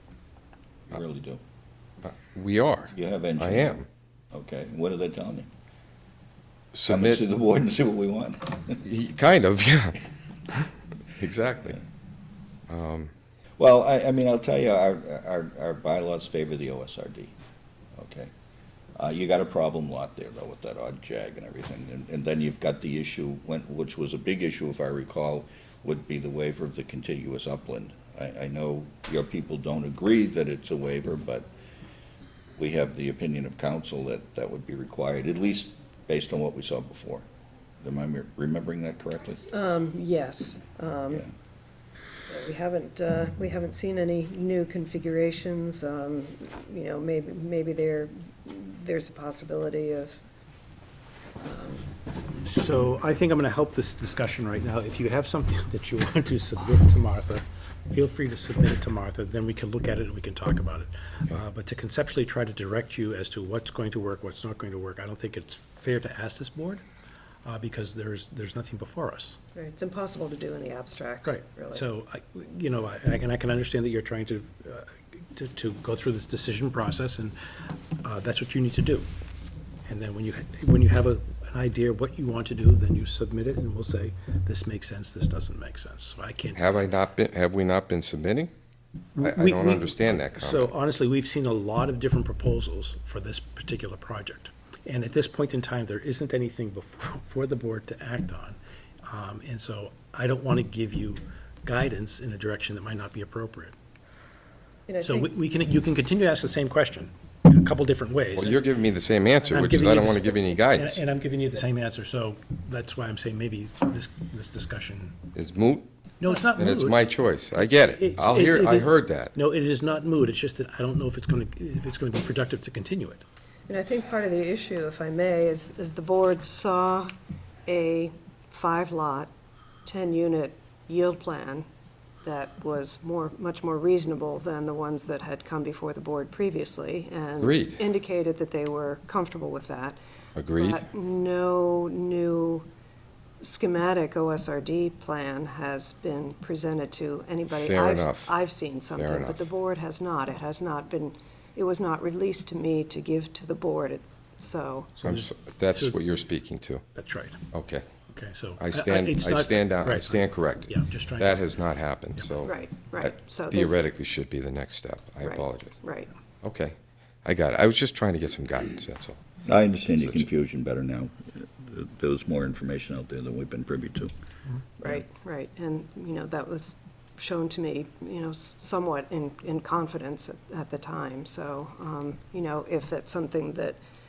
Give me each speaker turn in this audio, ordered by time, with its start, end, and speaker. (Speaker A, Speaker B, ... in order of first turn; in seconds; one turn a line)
Speaker A: 0.9-1.4
Speaker B: 2.0-3.9
Speaker A: 2.9-3.8
Speaker A: 4.3-5.5
Speaker B: 6.7-7.2
Speaker A: 6.9-8.8
Speaker B: 8.8-10.0
Speaker B: 10.5-11.8
Speaker B: 12.7-13.1
Speaker A: 13.6-17.3
Speaker A: 17.9-18.3
Speaker A: 18.9-31.5
Speaker A: 32.6-37.2
Speaker A: 37.8-39.4
Speaker C: 39.5-41.2
Speaker C: 42.3-50.2
Speaker C: 51.4-51.9
Speaker D: 52.4-66.8
Speaker D: 67.4-69.4
Speaker C: 69.5-71.8
Speaker D: 71.2-77.3
Speaker D: 78.0-79.1
Speaker D: 79.9-86.6
Speaker B: 86.5-88.5
Speaker D: 89.2-103.7
Speaker B: 89.2-90.7
Speaker C: 104.9-105.3
Speaker D: 105.0-108.6
Speaker B: 108.3-111.0
Speaker D: 109.5-115.2
Speaker B: 115.3-115.9
Speaker D: 116.2-117.0
Speaker B: 116.5-119.3
Speaker D: 117.7-123.2
Speaker C: 123.7-127.1
Speaker C: 127.7-129.3
Speaker C: 129.8-131.7
Speaker C: 132.2-140.0
Speaker B: 137.4-137.8
Speaker B: 140.3-140.8
Speaker C: 140.6-142.7
Speaker C: 143.4-154.9
Speaker B: 147.5-148.3
Speaker B: 148.9-149.4
Speaker D: 155.0-156.0
Speaker B: 155.0-156.8
Speaker D: 156.9-157.4
Speaker B: 157.5-157.8
Speaker D: 158.1-161.5
Speaker B: 158.6-165.8
Speaker C: 162.4-163.8
Speaker C: 165.2-166.1
Speaker B: 166.4-169.2
Speaker A: 169.4-174.1
Speaker B: 170.0-170.2
Speaker C: 174.8-183.8